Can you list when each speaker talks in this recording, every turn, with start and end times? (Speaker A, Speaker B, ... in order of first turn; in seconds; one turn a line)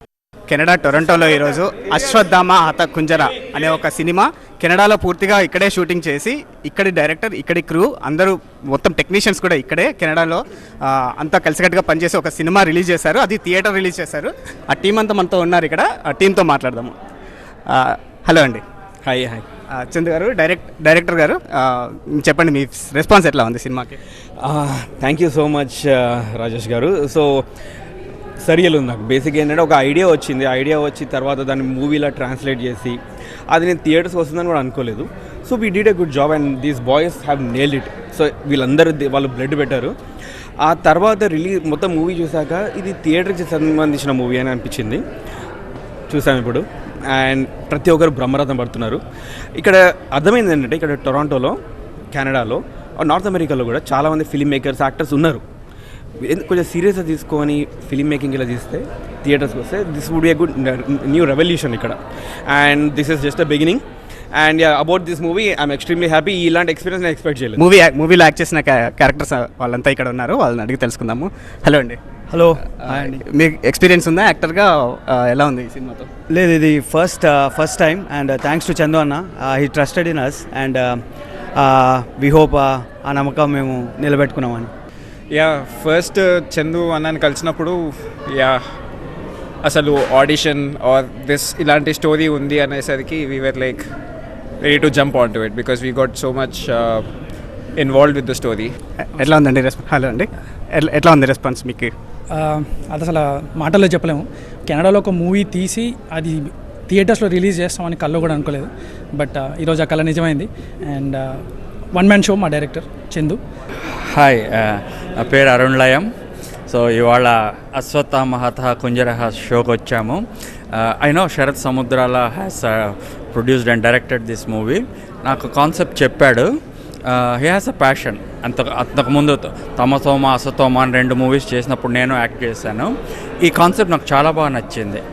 Speaker A: 0.5-16.9
Speaker A: 17.7-18.6
Speaker B: 19.0-19.4
Speaker A: 19.7-24.0
Speaker B: 24.4-27.4
Speaker B: 28.4-33.0
Speaker B: 33.5-39.9
Speaker B: 40.6-45.0
Speaker B: 46.1-49.0
Speaker B: 49.6-51.5
Speaker B: 52.1-55.4
Speaker B: 56.2-63.8
Speaker B: 64.3-67.6
Speaker A: 67.6-72.0
Speaker C: 72.3-73.2
Speaker A: 72.8-76.1
Speaker C: 76.3-81.0
Speaker C: 81.6-84.7
Speaker D: 85.3-88.7
Speaker D: 89.6-93.9
Speaker D: 94.6-97.1
Speaker D: 97.8-98.8
Speaker A: 99.1-101.9
Speaker E: 102.3-113.4
Speaker F: 114.1-116.0
Speaker F: 116.7-120.2
Speaker F: 120.7-126.5
Speaker F: 127.1-132.9
Speaker F: 133.4-135.0